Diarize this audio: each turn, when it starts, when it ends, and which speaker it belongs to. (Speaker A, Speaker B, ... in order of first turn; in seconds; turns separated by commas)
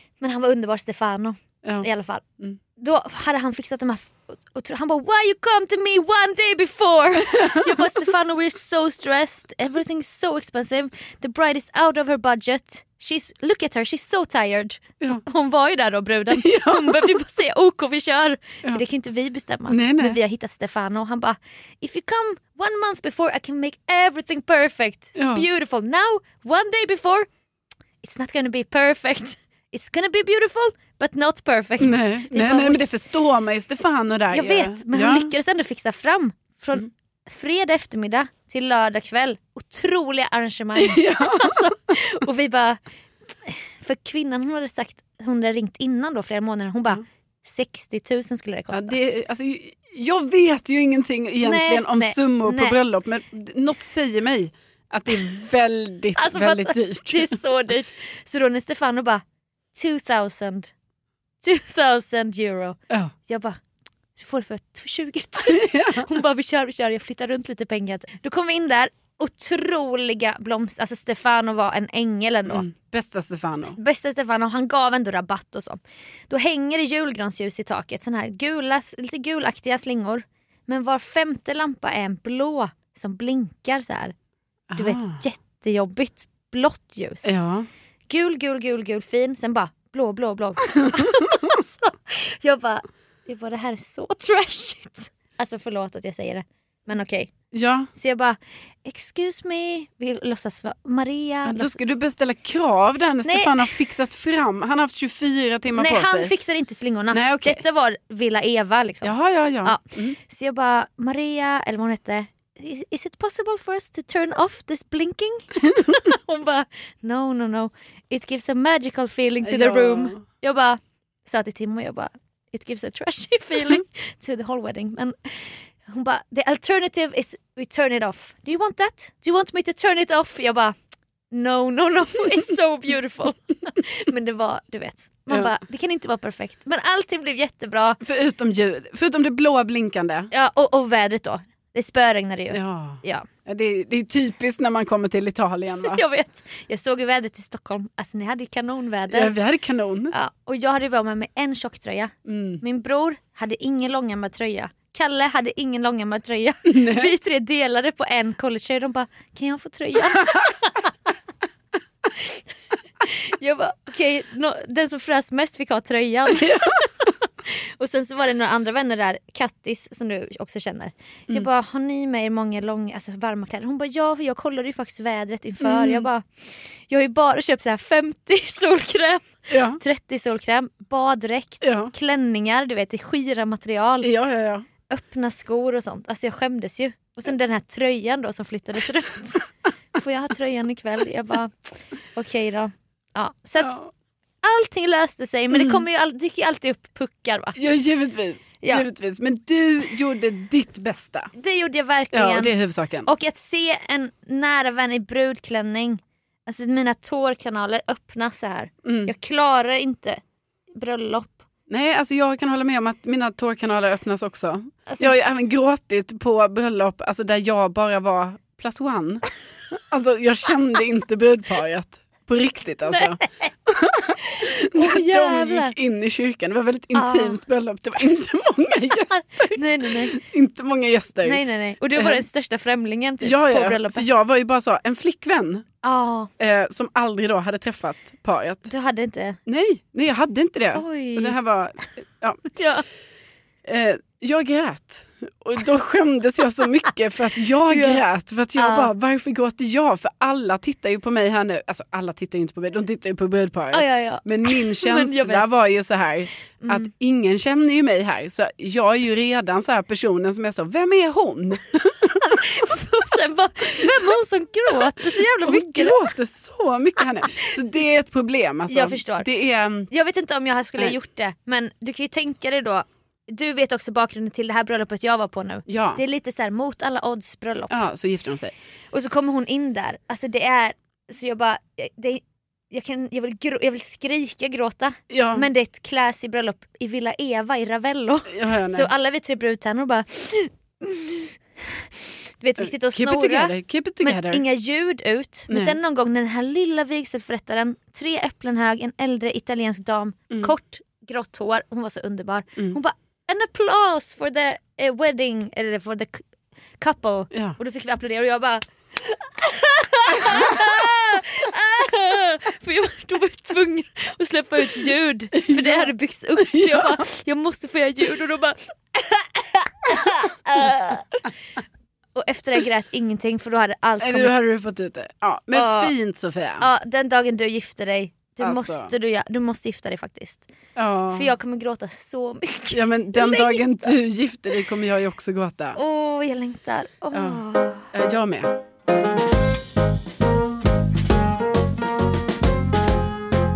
Speaker A: 0.2-2.2, Speaker A: 2.8-27.3, Speaker B: 7.3-7.9, Speaker B: 16.3-17.1, Speaker B: 19.7-20.2, Speaker B: 25.2-25.5, Speaker A: 28.0-33.0, Speaker B: 31.8-35.3, Speaker A: 34.3-42.8, Speaker B: 40.8-41.7, Speaker A: 43.4-49.0, Speaker B: 48.7-57.4, Speaker A: 51.4-52.8, Speaker A: 56.2-59.2, Speaker A: 59.7-60.7, Speaker A: 61.4-63.6, Speaker A: 64.2-72.7, Speaker B: 65.4-66.1, Speaker B: 72.5-73.8, Speaker A: 73.6-84.2, Speaker B: 84.7-85.2, Speaker A: 84.8-87.3, Speaker B: 87.2-87.7, Speaker A: 88.1-97.3, Speaker B: 90.8-91.5, Speaker B: 97.5-97.9, Speaker A: 98.0-101.8, Speaker B: 101.5-106.3, Speaker A: 103.2-103.8, Speaker A: 105.7-109.1, Speaker B: 107.1-107.6, Speaker B: 109.0-110.2, Speaker A: 109.6-130.8, Speaker B: 119.4-120.2, Speaker A: 131.3-138.0, Speaker B: 138.0-140.3, Speaker A: 140.3-143.3, Speaker B: 142.5-146.0, Speaker A: 145.8-149.3, Speaker B: 149.1-150.1, Speaker A: 150.1-160.9, Speaker B: 152.3-152.6, Speaker B: 156.7-157.1, Speaker A: 162.1-162.4, Speaker A: 163.0-184.1, Speaker B: 166.3-166.9, Speaker B: 175.6-176.1, Speaker B: 179.5-179.8, Speaker B: 181.6-181.9, Speaker B: 184.0-184.7, Speaker A: 184.9-193.8, Speaker B: 193.6-193.9, Speaker A: 194.4-197.6, Speaker B: 195.5-195.8, Speaker B: 197.6-201.3, Speaker A: 201.3-202.5, Speaker B: 202.1-203.1, Speaker A: 203.1-210.2, Speaker B: 208.8-209.1, Speaker A: 210.8-211.4, Speaker B: 211.7-231.4, Speaker A: 214.9-215.2, Speaker A: 222.9-223.5, Speaker A: 224.2-225.8, Speaker A: 226.9-227.4, Speaker A: 229.1-230.2, Speaker A: 231.2-234.1, Speaker B: 232.0-232.2, Speaker B: 233.2-235.7, Speaker A: 235.8-236.3, Speaker B: 236.4-238.7, Speaker A: 238.7-239.4, Speaker B: 239.5-242.4, Speaker A: 240.7-241.4, Speaker A: 242.6-242.8, Speaker B: 243.6-262.4, Speaker A: 247.7-248.0, Speaker A: 248.6-248.9, Speaker A: 253.7-255.5, Speaker A: 256.6-256.9, Speaker A: 262.2-266.0, Speaker B: 264.7-269.9, Speaker A: 267.2-267.6, Speaker A: 268.7-269.3, Speaker A: 269.9-277.8, Speaker B: 275.7-276.0, Speaker B: 277.7-278.5, Speaker A: 278.9-291.9, Speaker B: 285.1-285.5, Speaker B: 288.3-288.9, Speaker A: 292.4-306.3, Speaker B: 292.6-294.4, Speaker B: 295.5-295.8, Speaker A: 306.8-321.2, Speaker B: 307.3-307.6, Speaker B: 315.4-317.0, Speaker A: 322.1-324.4, Speaker B: 324.0-326.7, Speaker A: 325.5-325.9, Speaker A: 326.6-330.5, Speaker B: 328.4-328.9, Speaker B: 330.8-331.3, Speaker A: 331.1-334.0, Speaker B: 332.7-335.8, Speaker A: 335.8-337.9, Speaker B: 337.1-338.6